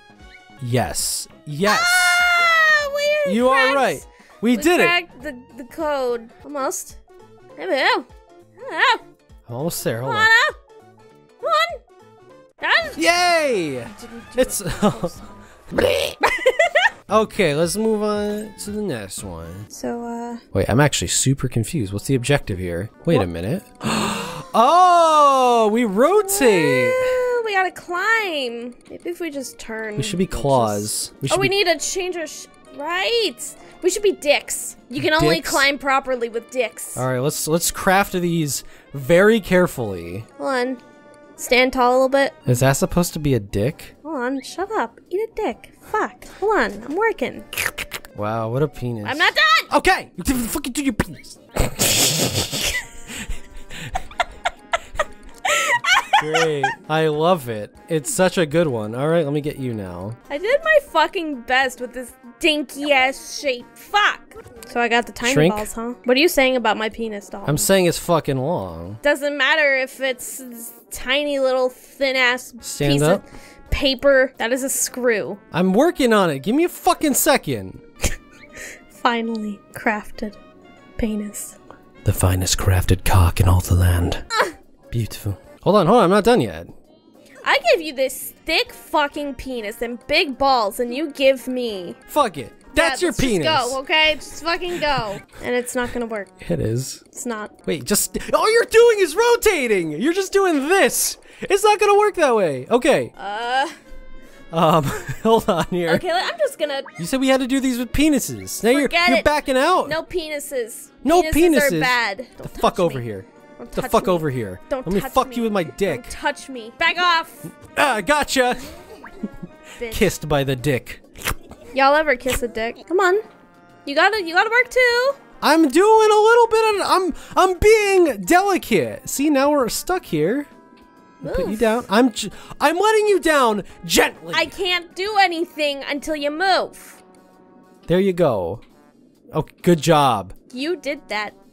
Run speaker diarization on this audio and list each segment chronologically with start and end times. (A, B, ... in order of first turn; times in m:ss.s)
0:00.6-0:02.3 A
0:01.6-0:07.0 B
0:03.2-0:05.0 A
0:07.6-0:09.0 B
0:09.5-0:10.3 A
0:10.0-0:10.6 B
0:11.4-0:11.8 B
0:12.6-0:13.0 B
0:12.9-0:15.1 A
0:13.8-0:15.4 B
0:15.7-0:16.2 A
0:16.2-0:16.9 B
0:17.1-0:19.7 A
0:19.7-0:20.4 B
0:20.5-0:27.2 A
0:26.2-0:37.0 B
0:30.0-0:31.5 A
0:34.9-0:35.7 A
0:36.9-0:40.2 A
0:40.4-0:40.8 B
0:41.4-0:42.4 B
0:42.4-0:43.9 A
0:44.0-0:47.7 B
0:48.1-0:52.4 A
0:49.0-0:49.7 B
0:52.6-0:52.9 B
0:53.1-0:54.0 A
0:55.4-0:56.7 B
0:56.1-1:00.2 A
1:00.3-1:07.7 B
1:05.2-1:05.7 A
1:07.4-1:09.0 A
1:09.0-1:15.4 B
1:12.6-1:13.2 A
1:15.5-1:17.8 A
1:18.9-1:20.4 B
1:21.0-1:21.5 B
1:22.0-1:24.2 A
1:24.9-1:26.7 A
1:27.4-1:32.0 B
1:32.1-1:33.8 A
1:32.7-1:36.3 B
1:36.4-1:37.0 A
1:37.1-1:37.5 B
1:37.6-1:43.1 A
1:43.2-1:43.7 B
1:44.5-1:46.0 A
1:45.9-1:46.9 B
1:47.0-1:50.0 A
1:48.7-1:49.3 B
1:49.8-1:53.0 B
1:51.0-1:56.1 A
1:53.6-1:57.5 B
1:57.5-1:58.7 A
1:59.8-2:00.1 B
1:59.8-2:01.0 A
2:01.7-2:03.2 B
2:03.8-2:05.2 B
2:05.4-2:10.5 A
2:11.2-2:11.8 B
2:11.2-2:14.5 A
2:14.3-2:17.0 B
2:17.9-2:18.6 A
2:19.3-2:20.3 A
2:20.5-2:21.3 B